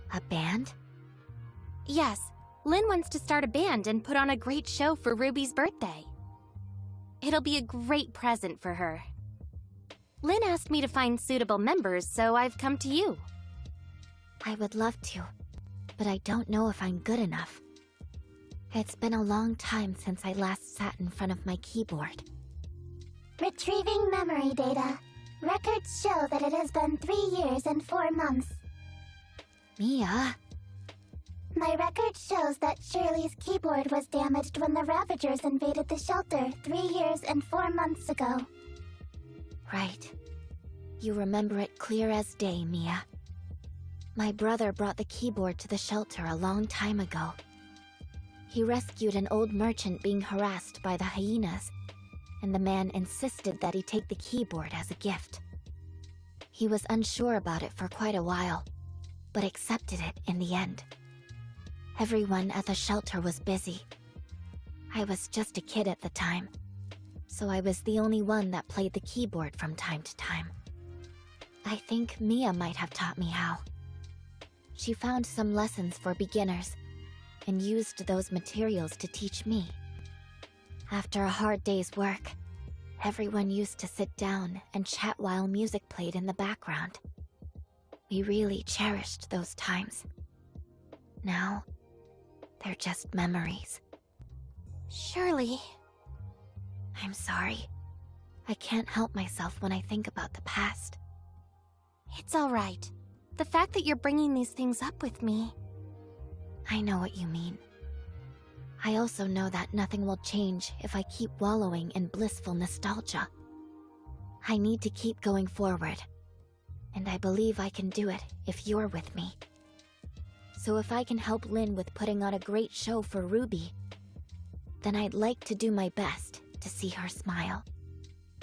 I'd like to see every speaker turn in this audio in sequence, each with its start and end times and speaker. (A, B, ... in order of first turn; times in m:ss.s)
0:00.1-0:00.8 A
0:01.9-0:06.1 B
0:07.2-0:09.1 B
0:10.2-0:13.2 B
0:14.4-0:15.3 A
0:16.0-0:17.6 A
0:18.7-0:22.3 A
0:23.4-0:28.6 C
0:29.8-0:30.4 A
0:31.6-0:38.5 C
0:39.7-0:40.2 A
0:41.0-0:43.0 A
0:44.2-0:47.4 A
0:48.5-0:51.7 A
0:52.4-0:55.4 A
0:56.5-0:58.7 A
0:59.3-1:00.9 A
1:02.0-1:03.9 A
1:04.9-1:06.5 A
1:07.3-1:10.5 A
1:11.6-1:13.6 A
1:14.8-1:16.8 A
1:17.5-1:19.8 A
1:20.9-1:22.4 A
1:23.0-1:27.0 A
1:28.1-1:30.1 A
1:31.2-1:31.7 A
1:32.6-1:33.8 A
1:34.9-1:35.7 B
1:37.0-1:37.7 A
1:38.5-1:41.0 A
1:42.1-1:45.6 B
1:46.7-1:47.6 A
1:48.8-1:53.3 A
1:54.4-1:56.1 A
1:56.9-1:59.4 A
2:00.5-2:03.7 A
2:04.8-2:07.6 A